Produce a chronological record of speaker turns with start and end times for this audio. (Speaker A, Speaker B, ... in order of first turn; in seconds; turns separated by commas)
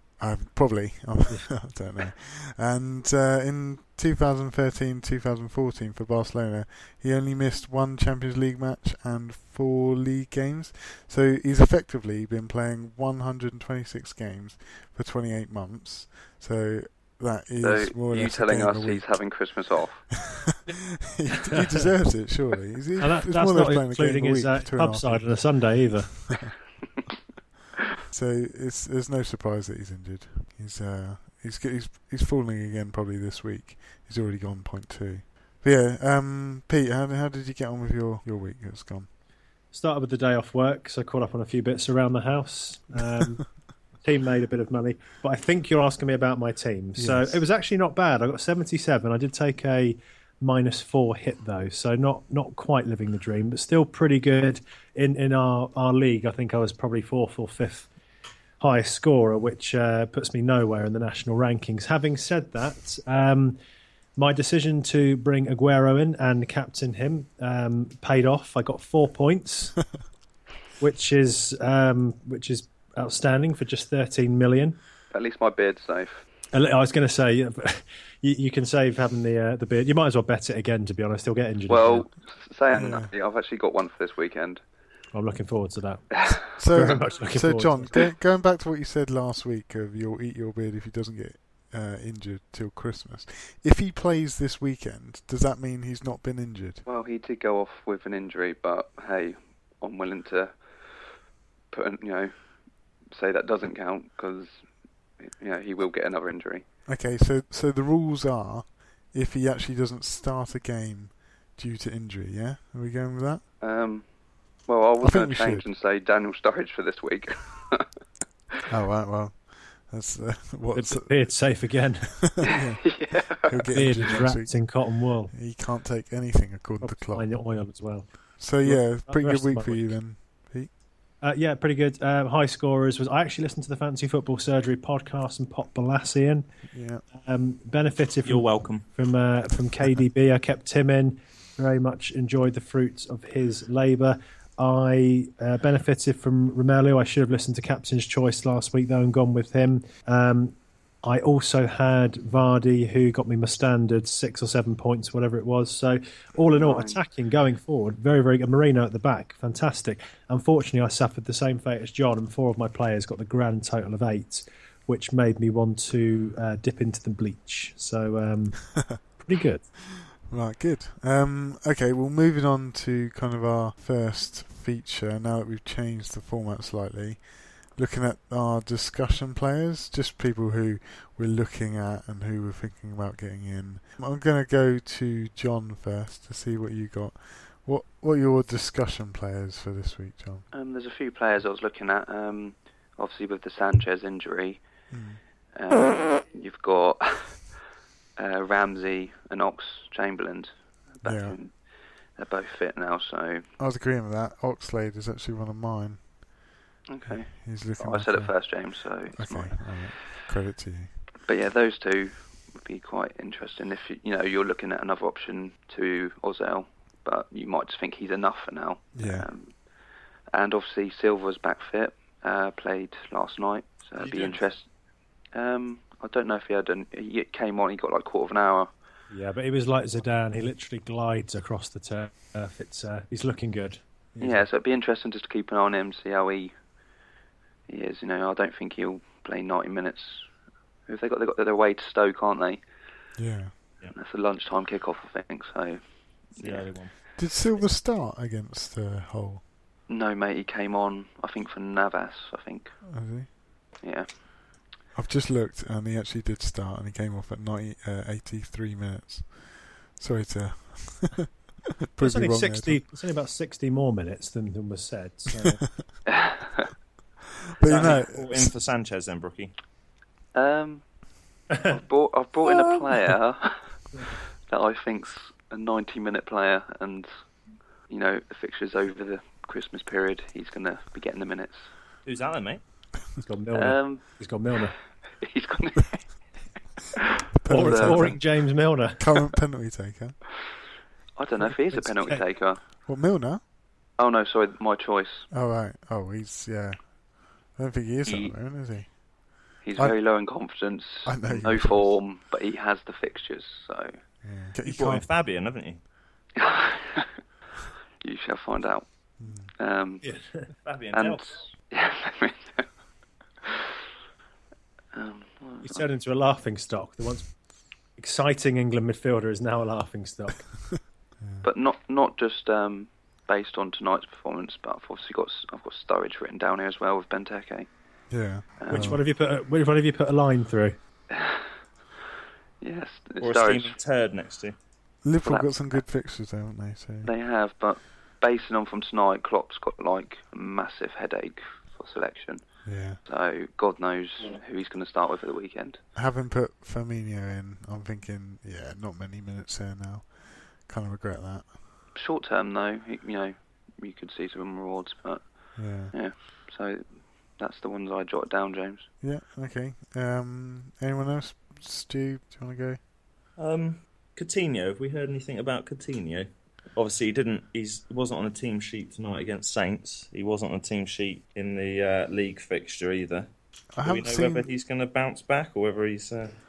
Speaker A: 0.2-19.1, Speaker B: 17.6-20.1, Speaker A: 20.2-25.4, Speaker C: 21.5-21.9, Speaker C: 23.0-26.1, Speaker A: 26.3-26.5, Speaker A: 28.1-39.1, Speaker C: 39.7-43.4, Speaker C: 44.0-57.9, Speaker A: 47.0-47.4, Speaker C: 58.6-63.6, Speaker C: 64.2-69.8, Speaker C: 70.8-74.8, Speaker B: 75.1-76.2, Speaker C: 76.5-82.1, Speaker B: 81.7-84.6, Speaker A: 82.7-83.1, Speaker C: 85.1-88.0, Speaker A: 86.6-96.8, Speaker B: 96.9-100.6, Speaker B: 101.7-102.3, Speaker B: 103.1-104.6, Speaker B: 105.2-106.7, Speaker A: 106.9-113.4, Speaker B: 113.6-114.1, Speaker B: 114.7-117.9, Speaker A: 115.0-115.7, Speaker A: 118.7-121.3, Speaker C: 120.7-122.1, Speaker A: 122.1-127.3, Speaker B: 122.4-123.6, Speaker C: 123.7-125.3, Speaker C: 126.8-129.9, Speaker A: 128.4-130.7, Speaker C: 131.2-136.5, Speaker A: 136.7-137.0, Speaker C: 137.1-169.7, Speaker D: 138.2-138.8, Speaker B: 156.6-157.0, Speaker A: 170.2-177.2, Speaker A: 177.8-190.5, Speaker B: 190.5-194.6, Speaker A: 194.9-195.2, Speaker B: 195.6-197.5, Speaker B: 198.2-201.5, Speaker A: 201.0-201.4, Speaker B: 202.2-203.5, Speaker A: 203.6-206.0, Speaker B: 206.9-209.6, Speaker A: 207.1-208.3, Speaker A: 209.1-210.9, Speaker B: 211.3-219.5, Speaker A: 218.9-219.3, Speaker B: 220.3-224.7, Speaker D: 224.0-224.4, Speaker B: 225.3-228.7, Speaker C: 229.1-234.4, Speaker B: 234.2-236.5, Speaker B: 237.7-240.3, Speaker B: 240.9-242.6, Speaker A: 243.2-243.5, Speaker B: 243.9-245.8, Speaker B: 246.4-246.7, Speaker D: 246.4-246.9, Speaker A: 247.2-249.4, Speaker B: 249.9-252.8, Speaker A: 252.9-253.3, Speaker B: 253.8-254.1, Speaker A: 254.9-261.3, Speaker A: 261.9-262.8, Speaker C: 262.0-265.6, Speaker B: 266.1-266.7, Speaker A: 267.6-268.5, Speaker D: 267.6-269.5, Speaker B: 270.3-270.8, Speaker B: 271.6-273.6, Speaker B: 274.5-277.1, Speaker B: 277.9-281.6, Speaker D: 282.1-282.6, Speaker C: 283.2-284.7, Speaker B: 283.5-284.0, Speaker B: 285.2-286.1, Speaker B: 287.0-288.2, Speaker A: 287.4-288.2, Speaker C: 287.5-289.0, Speaker A: 289.0-290.2, Speaker B: 291.2-292.6, Speaker C: 291.7-292.2, Speaker A: 292.9-293.4, Speaker B: 294.0-295.3, Speaker A: 295.3-297.0, Speaker A: 297.5-298.9, Speaker B: 298.1-298.3, Speaker B: 299.6-303.9, Speaker A: 301.1-301.9, Speaker A: 304.2-305.0, Speaker D: 304.6-305.8, Speaker B: 306.4-307.1, Speaker B: 308.0-308.9, Speaker A: 309.2-309.5, Speaker B: 309.6-310.0, Speaker C: 310.0-310.5, Speaker D: 310.6-311.3, Speaker B: 310.9-312.7, Speaker B: 314.9-315.9, Speaker C: 315.6-317.3, Speaker C: 318.0-320.5, Speaker B: 321.4-327.7, Speaker A: 328.1-329.0, Speaker B: 328.6-329.0, Speaker C: 328.7-330.8, Speaker B: 331.1-331.5, Speaker B: 332.6-333.8, Speaker D: 333.2-334.6, Speaker A: 335.0-337.1, Speaker B: 335.2-335.8, Speaker B: 337.1-342.4, Speaker A: 342.6-343.0, Speaker B: 343.1-345.8, Speaker A: 345.9-351.5, Speaker B: 351.9-355.2, Speaker A: 355.6-355.9, Speaker B: 355.9-356.8, Speaker B: 357.4-358.9, Speaker A: 359.0-362.8, Speaker D: 363.4-373.3, Speaker A: 373.8-374.5, Speaker D: 373.8-376.4